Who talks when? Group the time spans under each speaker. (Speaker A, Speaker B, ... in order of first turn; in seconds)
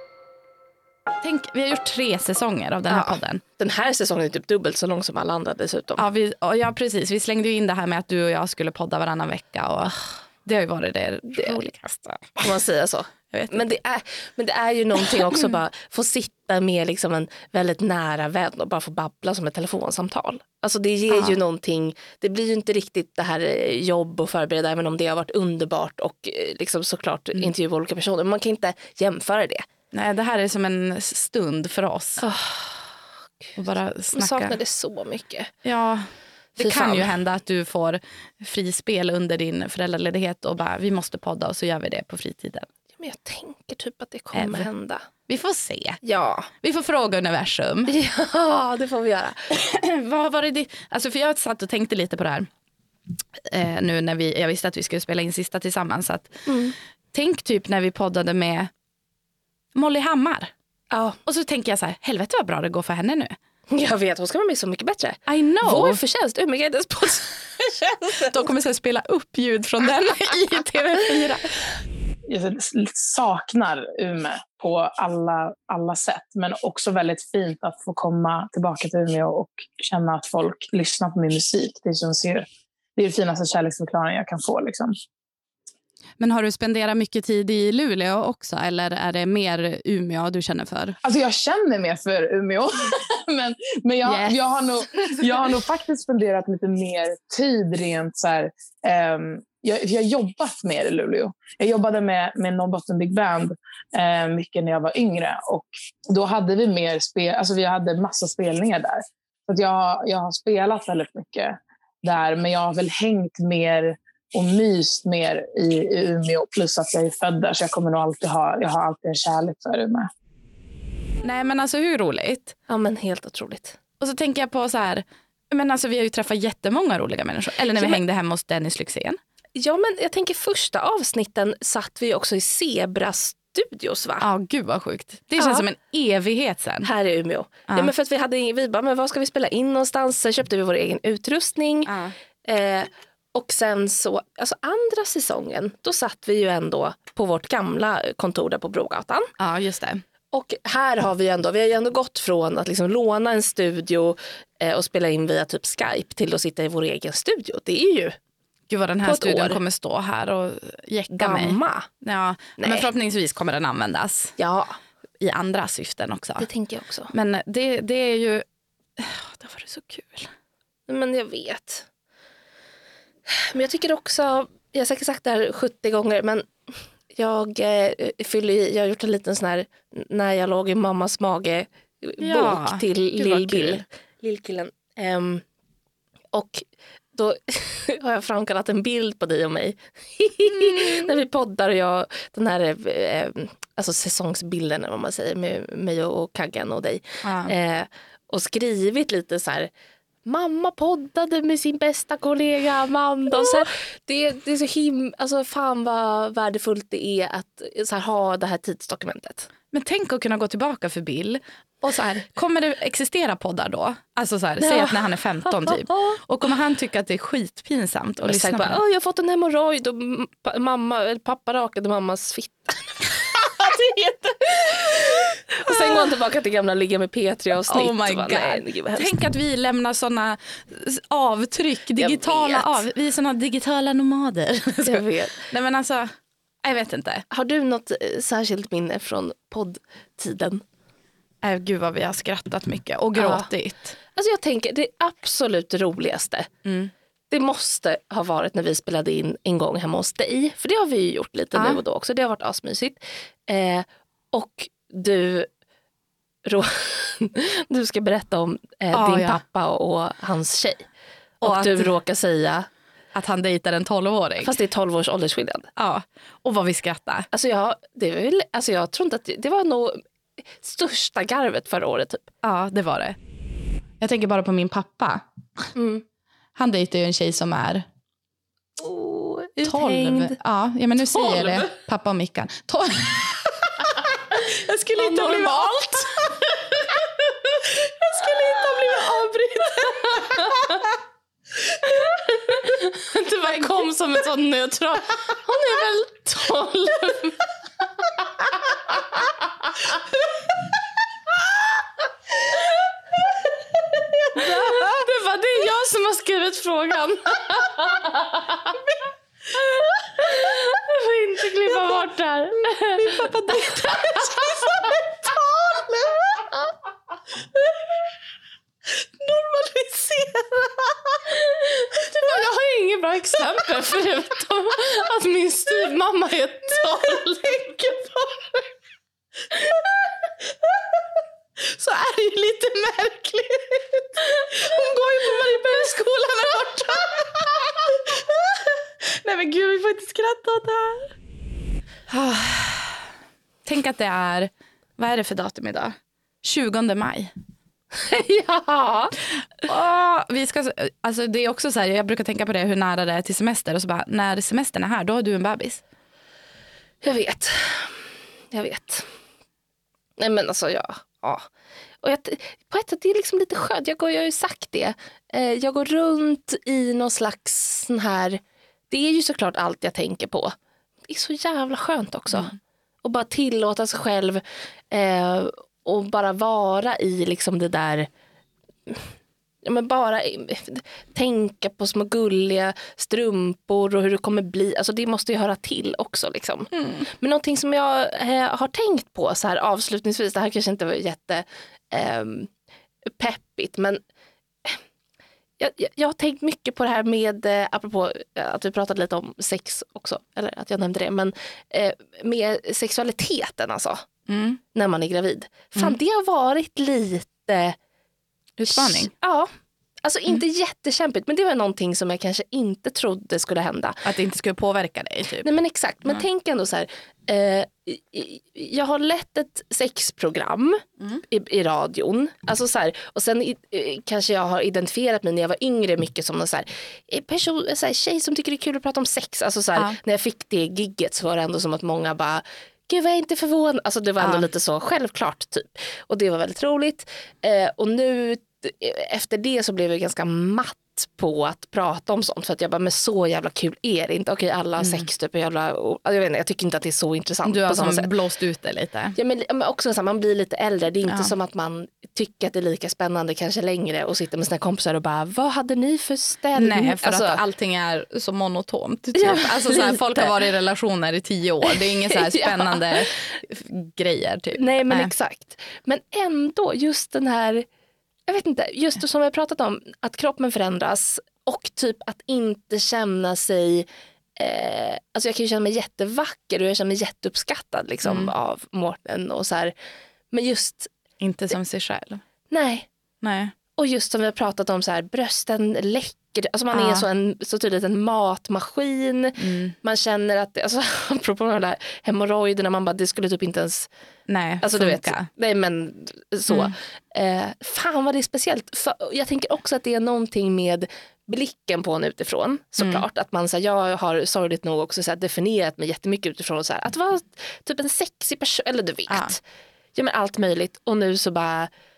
Speaker A: 1.2-3.4, 6.0-12.5, 13.3-13.7, 21.1-21.4, 29.9-32.2, 33.5-34.6, 35.6-42.7, 44.3-44.7, 45.3-46.0, 46.5-47.9, 49.5-52.5, 53.4-56.5, 57.1-58.7, 59.7-60.5, 61.2-63.3, 65.2-66.0, 68.3-71.5, 86.2-91.0, 94.0-94.4, 121.2-122.5, 124.0-129.2, 134.2-136.9, 141.8-142.1, 149.4-150.0, 158.7-164.3, 165.2-166.5, 167.1-168.4, 169.0-170.3, 182.2-183.8, 190.5-191.1, 197.2-197.5, 209.7-218.8, 225.7-226.1, 227.7-236.1, 236.6-237.2, 241.4-243.9, 246.6-246.9, 251.5-251.8, 258.9-259.4, 261.4-261.9, 263.1-264.5, 265.8-267.3, 272.4-273.2, 274.0-275.7, 276.6-277.9, 279.6-283.4, 284.7-285.8, 288.1-290.8, 313.0-314.4, 319.8-320.6, 331.7-338.0, 339.0-341.1, 342.1-343.0, 343.6-347.3, 349.4-355.8, 386.7-387.0, 404.3-404.6, 408.6-409.1, 414.0-415.5, 434.2-434.5, 444.8-445.0, 447.4-449.1, 451.1-451.3, 456.5-465.1, 478.0-478.3, 481.2-482.2, 483.2-483.5, 486.7-487.1, 489.4-489.7, 494.3-495.3, 502.8-503.0, 509.1-509.3
Speaker B: 2.9-6.0, 12.4-29.6, 32.2-32.9, 34.1-35.5, 36.6-37.1, 43.0-45.1, 46.0-46.5, 47.9-49.5, 56.5-56.7, 60.9-61.2, 63.7-68.3, 122.7-123.8, 129.6-134.2, 135.4-135.6, 136.8-141.9, 142.4-149.3, 150.3-158.2, 159.0-159.6, 161.1-161.9, 162.6-162.9, 164.4-164.8, 166.4-167.1, 170.9-171.9, 173.3-185.4, 186.3-199.7, 200.2-209.5, 214.6-216.2, 218.2-229.1, 232.0-232.8, 234.8-235.5, 237.3-240.6, 243.2-243.5, 244.1-246.5, 247.3-255.5, 256.4-260.9, 261.4-262.7, 264.4-265.7, 267.3-272.3, 275.7-276.0, 278.8-280.4, 281.1-281.7, 283.9-286.8, 288.1-289.1, 289.7-290.8, 291.8-297.4, 304.3-308.8, 309.5-316.6, 319.3-320.1, 321.3-328.0, 334.3-335.9, 347.9-349.1, 357.0-359.1, 360.2-361.4, 362.0-370.5, 371.1-378.1, 379.6-392.5, 393.2-394.0, 395.6-404.1, 404.7-407.8, 408.7-409.5, 410.0-414.0, 415.4-448.1, 449.1-457.4, 459.1-460.4, 461.7-463.3, 464.6-467.6, 468.3-479.7, 480.3-480.9, 482.5-482.9, 483.8-493.9, 494.6-509.4, 509.9-511.7
Speaker C: 72.3-85.0, 91.0-120.1